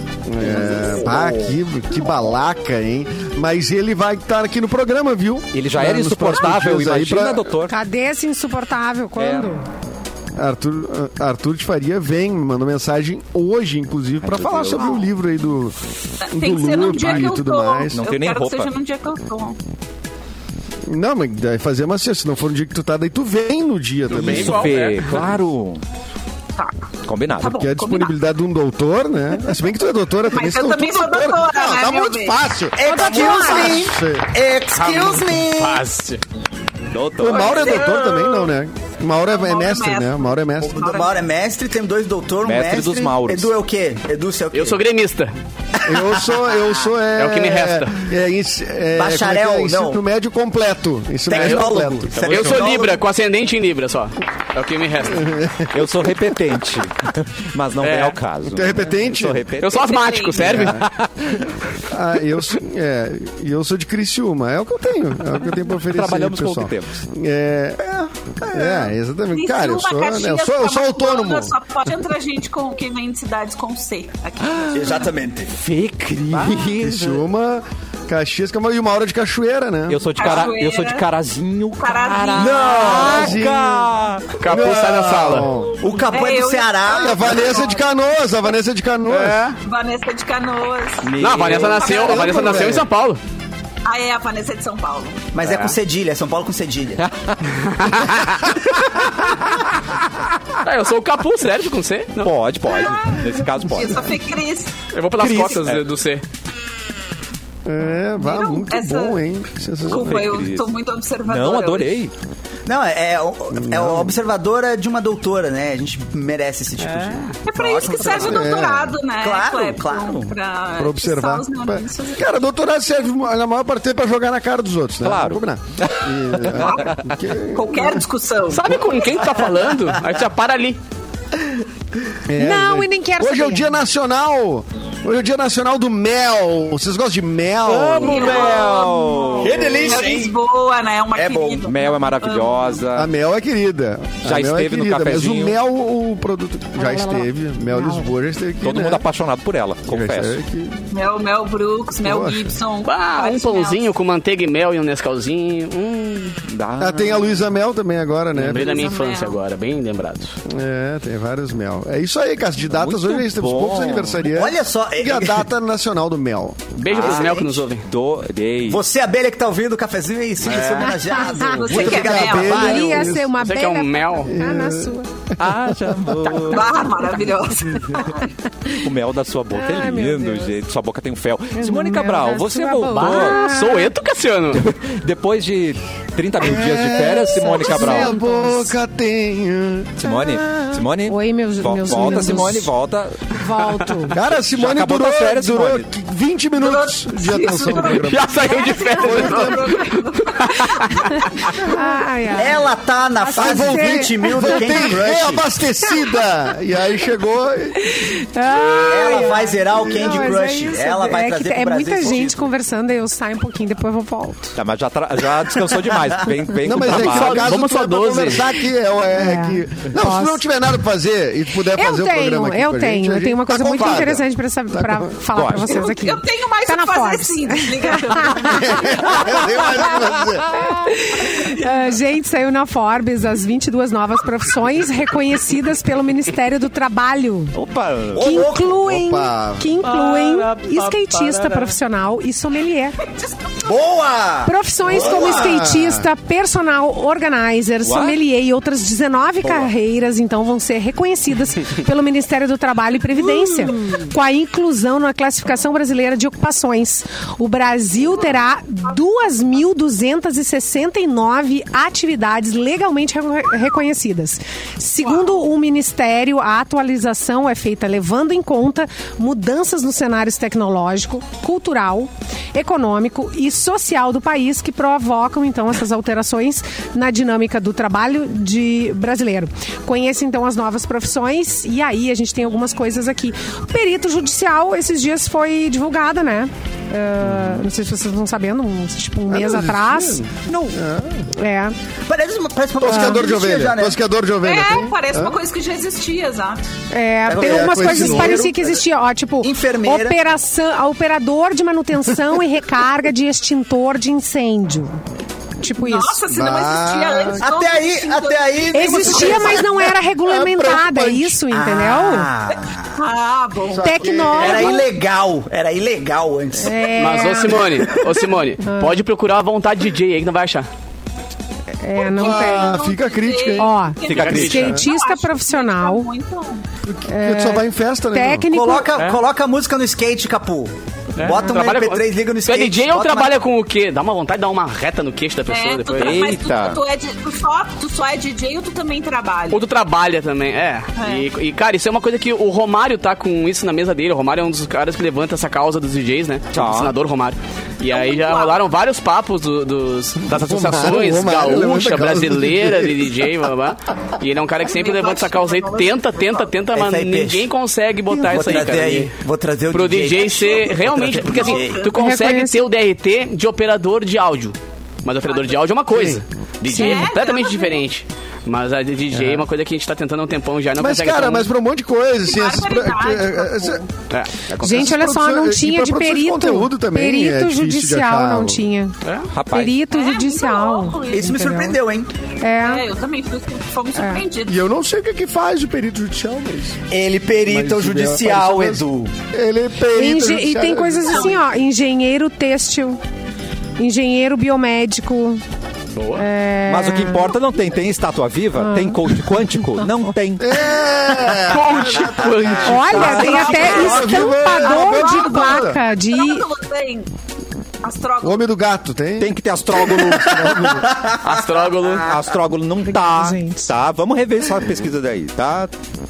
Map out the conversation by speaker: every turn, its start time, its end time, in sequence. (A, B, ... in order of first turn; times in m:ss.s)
0:00.2-0:07.5 A
0:05.5-0:07.8 B
0:07.7-0:09.6 C
0:09.2-0:09.5 B
0:10.4-0:15.8 A
0:14.2-0:15.0 B
0:16.2-0:19.6 D
0:16.3-0:18.0 A
0:17.9-0:18.7 B
0:20.8-0:24.7 A
0:24.1-0:25.4 E
0:24.1-0:25.8 B
0:26.6-0:26.9 D
0:27.0-0:27.6 B
0:27.4-0:28.1 D
0:27.5-0:34.3 A
0:30.3-0:32.4 D
0:32.8-0:35.8 F
0:32.8-0:33.9 C
0:34.7-0:36.2 E
0:36.9-0:37.8 B
0:37.2-0:40.8 A
0:37.3-0:38.4 D
0:39.3-0:41.2 D
0:40.6-0:44.8 F
0:42.4-0:43.5 B
0:44.5-0:45.3 E
0:45.8-0:46.4 F
0:45.8-0:52.7 A
0:47.1-0:48.0 E
0:49.0-0:50.0 F
0:51.3-0:53.0 F
0:51.3-0:55.3 E
0:55.1-0:55.7 A
0:55.7-0:59.9 B
0:57.8-0:58.2 E
0:58.5-0:59.5 A
0:59.6-1:00.8 E
0:59.7-1:00.6 D
1:00.4-1:00.8 A
1:00.5-1:01.4 B
1:01.9-1:07.8 A
1:05.9-1:07.0 B
1:07.8-1:08.9 F
1:08.5-1:11.5 A
1:09.3-1:15.1 D
1:14.7-1:15.5 F
1:15.5-1:17.2 B
1:16.3-1:20.0 A
1:19.9-1:24.4 B
1:20.2-1:21.0 D
1:21.8-1:23.2 D
1:22.4-1:23.3 F
1:22.7-1:23.9 A
1:24.4-1:25.5 E
1:24.4-1:25.8 A
1:25.8-1:27.6 F
1:26.1-1:27.8 D
1:26.8-1:29.5 A
1:29.1-1:29.6 E
1:29.6-1:31.1 D
1:31.0-1:32.4 B
1:31.2-1:33.2 E
1:31.8-1:32.4 D
1:31.8-1:32.9 A
1:33.8-1:35.2 D
1:35.3-1:37.0 F
1:35.4-1:35.8 E
1:37.0-1:37.4 B
1:37.5-1:38.5 E
1:40.6-1:42.3 E
1:42.2-1:44.2 B
1:42.7-1:44.8 D
1:44.9-1:46.2 E
1:45.2-1:45.8 B
1:47.6-1:50.3 A
1:48.2-1:49.2 D
1:49.8-1:51.9 D
1:49.9-1:50.7 B
1:51.3-1:52.1 B
1:52.6-1:58.7 F
1:53.5-1:54.2 A
1:56.8-1:57.3 E
1:57.4-2:02.3 D
1:58.2-1:58.9 A
1:59.2-2:00.3 F
2:00.8-2:08.0 A
2:05.0-2:07.1 B
2:06.6-2:06.9 D
2:07.5-2:09.0 D
2:08.5-2:10.8 E
2:12.3-2:18.3 A
2:12.4-2:13.8 C
2:17.6-2:20.0 B
2:18.0-2:22.8 D
2:18.0-2:18.7 F
2:19.4-2:20.3 F
2:21.1-2:21.7 F
2:21.6-2:23.1 B
2:22.9-2:29.0 A
2:24.2-2:25.6 B
2:26.8-2:28.1 C
2:28.6-2:30.4 B
2:29.9-2:30.8 A
2:30.9-2:33.9 D
2:32.0-2:32.5 A
2:32.8-2:36.4 E
2:36.5-2:37.3 B
2:36.8-2:38.9 A
2:38.4-2:40.3 E
2:38.5-2:39.4 D
2:40.4-2:46.7 A
2:42.7-2:44.2 B
2:44.2-2:45.5 F
2:46.8-2:47.8 E
2:46.9-2:48.8 B
2:46.9-2:47.6 F
2:48.7-2:53.2 F
2:50.4-2:51.0 E
2:51.1-2:51.5 C
2:51.4-2:53.1 D
2:51.7-2:53.3 A
2:52.4-2:55.1 C
2:53.3-2:54.3 E
2:54.2-2:54.9 A
2:55.4-2:56.8 B
2:55.7-2:56.0 A
2:56.5-2:58.0 D
2:58.7-3:03.6 B
2:59.5-3:00.6 C
3:01.5-3:03.8 C
3:02.9-3:04.6 E
3:04.5-3:08.1 B
3:06.4-3:10.8 A
3:07.4-3:08.8 C
3:10.0-3:13.2 B
3:11.1-3:12.7 C
3:13.3-3:14.2 C
3:14.1-3:19.8 A
3:14.4-3:15.8 B
3:16.6-3:21.5 D
3:17.9-3:21.1 E
3:21.1-3:22.7 C
3:22.3-3:25.4 F
3:23.2-3:24.9 C
3:23.3-3:28.0 A
3:27.8-3:34.5 C
3:28.8-3:32.5 F
3:29.8-3:30.3 A
3:34.6-3:37.6 B
3:36.6-3:45.1 A
3:36.8-3:38.5 E
3:39.1-3:40.4 C
3:41.7-3:49.6 C
3:43.6-3:44.0 E
3:45.3-3:45.8 B
3:45.7-3:49.6 D
3:48.5-3:50.5 A
3:50.5-3:57.6 C
3:57.5-3:58.3 B
3:58.1-3:58.8 F
3:58.1-4:03.0 C
3:58.7-3:59.8 A
3:59.8-4:01.7 E
4:03.6-4:05.5 F
4:04.4-4:50.2 C
4:04.9-4:06.1 A
4:07.8-4:08.2 B
4:49.3-4:51.3 A
4:51.3-4:51.8 C
4:52.1-4:54.0 F
4:52.8-4:55.4 A
4:52.8-4:53.2 C
4:54.4-4:56.6 D
4:56.9-5:05.0 C
4:57.3-4:58.7 F
4:57.3-4:58.6 A
4:59.4-5:00.2 F
5:05.6-5:06.2 C
5:05.8-5:09.8 D
5:06.3-5:07.4 A
5:07.4-5:09.9 F
5:08.7-5:12.3 C
5:10.2-5:11.4 A
5:11.5-5:12.9 F
5:13.0-5:14.8 D
5:13.7-5:14.8 A
5:13.8-5:14.8 C
5:14.4-5:17.3 F
5:16.6-5:18.0 C
5:16.9-5:20.7 E
5:18.6-5:19.0 C
5:21.8-5:22.8 C
5:22.0-5:26.6 D
5:22.2-5:23.7 A
5:23.6-5:26.1 C
5:24.0-5:24.8 B
5:24.2-5:24.7 E
5:26.8-5:28.5 A
5:27.1-5:28.9 C
5:28.5-5:33.4 F
5:29.0-5:29.2 E
5:31.2-5:36.3 E
5:35.5-5:39.6 D
5:35.9-5:36.8 B
5:39.5-5:59.1 E
5:41.0-5:41.3 D
5:46.5-5:46.9 B
5:47.9-5:48.6 D
5:50.2-5:53.1 A
5:54.6-5:56.5 D
5:56.7-5:57.5 F
5:58.1-6:01.8 F
5:59.7-6:11.5 E
6:00.2-6:01.9 D
6:01.9-6:02.6 C
6:05.9-6:06.2 A
6:06.7-6:07.1 C
6:06.7-6:07.8 D
6:09.1-6:09.4 A
6:10.8-6:13.8 A
6:12.3-6:13.9 D
6:14.1-6:15.1 E
6:14.6-6:21.8 C
6:14.6-6:18.6 A
6:19.0-6:19.3 E
6:19.3-6:19.8 B
6:19.9-6:21.4 D
6:21.1-6:22.1 F
6:22.4-6:22.8 C
6:22.6-6:24.6 D
6:24.0-6:24.2 C
6:24.5-6:26.8 A
6:26.9-6:29.1 F
6:27.4-6:31.3 A
6:29.9-6:33.0 C
6:33.8-6:35.4 C
6:36.0-6:36.2 E
6:36.2-6:37.3 C
6:36.6-6:40.5 B
6:38.6-6:39.0 C
6:40.4-6:45.8 A
6:41.3-6:44.0 E
6:42.6-6:46.4 C
6:43.2-6:43.9 F
6:43.2-6:47.1 D
6:47.8-6:48.4 D
6:48.2-6:51.0 A
6:49.2-6:50.6 B
6:49.9-6:52.2 F
6:51.2-6:52.1 E
6:52.0-6:55.7 B
6:52.8-6:53.7 C